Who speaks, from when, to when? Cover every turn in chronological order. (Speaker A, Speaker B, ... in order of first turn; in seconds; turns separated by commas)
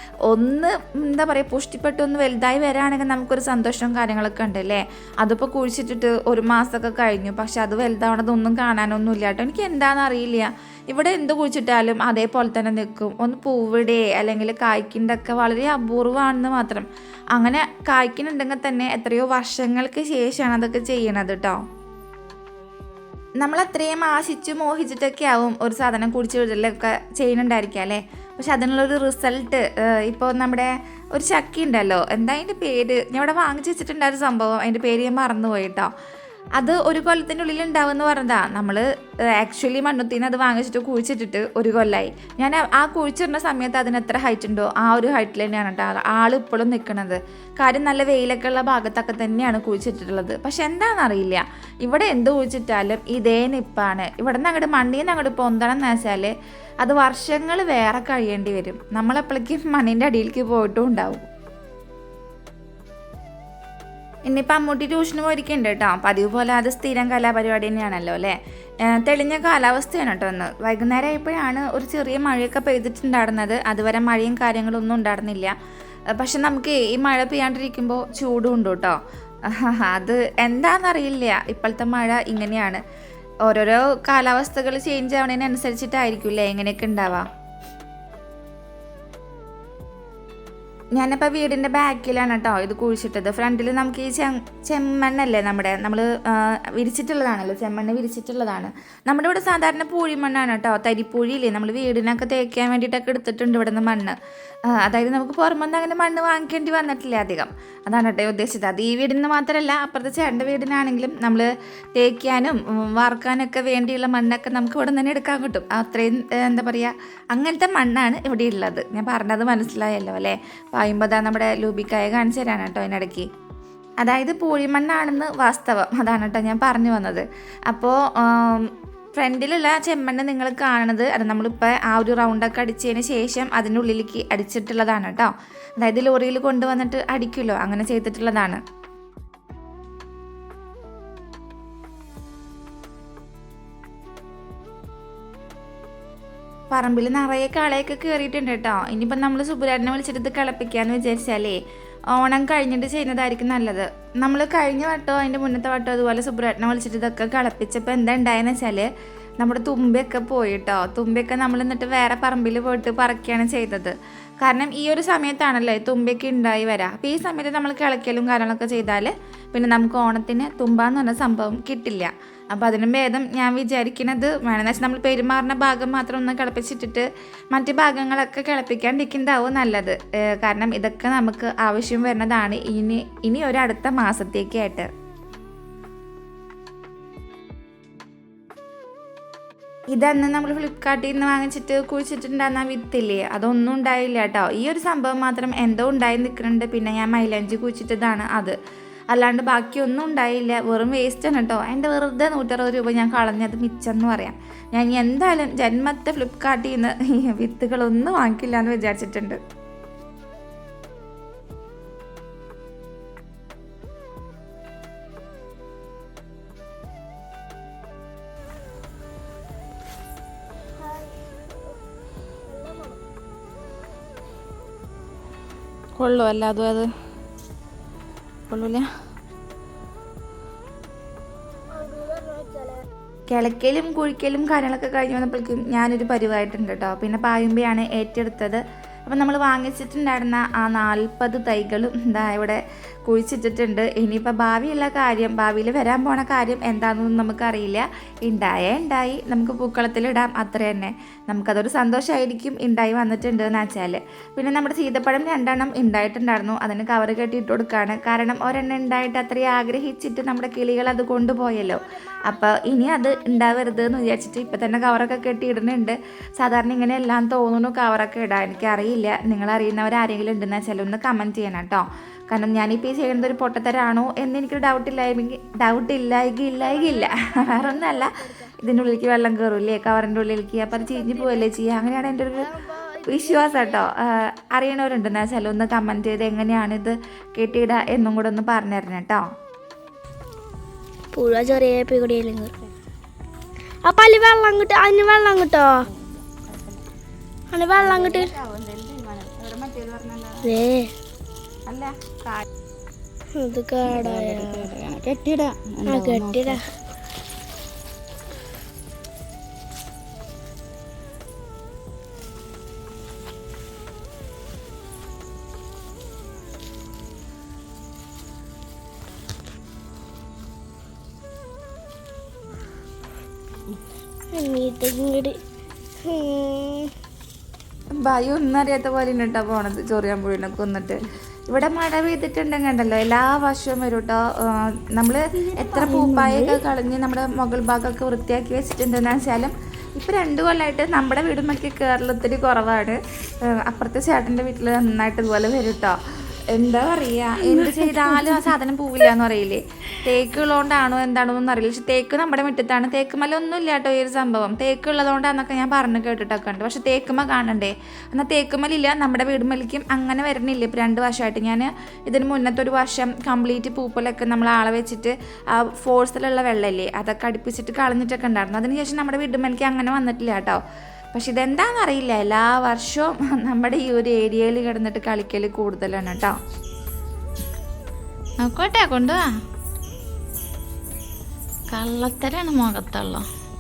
Speaker A: 0.3-21.6, Speaker A: 23.4-35.9, Speaker A: 36.6-38.8, Speaker A: 39.4-56.3, Speaker A: 56.8-61.2, Speaker A: 64.3-68.4, Speaker A: 68.9-75.5, Speaker A: 76.2-79.0, Speaker A: 79.5-82.8, Speaker A: 83.5-87.3, Speaker A: 91.0-104.2, Speaker A: 104.7-123.3, Speaker A: 124.0-138.6, Speaker A: 146.7-151.6, Speaker A: 152.2-158.9, Speaker A: 159.4-184.9, Speaker A: 189.9-198.6, Speaker A: 199.1-209.4, Speaker B: 220.8-221.7, Speaker B: 222.5-223.0, Speaker A: 226.0-226.9, Speaker A: 228.5-228.8, Speaker B: 231.7-232.8, Speaker A: 233.3-282.5, Speaker B: 261.7-264.2, Speaker B: 276.6-278.5, Speaker B: 280.8-281.5, Speaker B: 282.4-283.8, Speaker A: 283.1-289.2, Speaker B: 291.1-292.5, Speaker B: 293.9-295.8, Speaker A: 295.9-296.8, Speaker B: 297.5-298.3, Speaker A: 297.8-300.6, Speaker B: 300.4-300.9, Speaker A: 301.7-302.4, Speaker B: 303.4-304.7, Speaker A: 303.9-306.5, Speaker B: 305.9-306.6, Speaker B: 324.3-325.4, Speaker B: 326.0-326.9, Speaker A: 328.0-343.0, Speaker B: 335.5-336.6, Speaker A: 343.5-346.0, Speaker A: 346.5-370.6, Speaker A: 371.1-376.3, Speaker A: 378.4-379.3, Speaker A: 381.7-383.3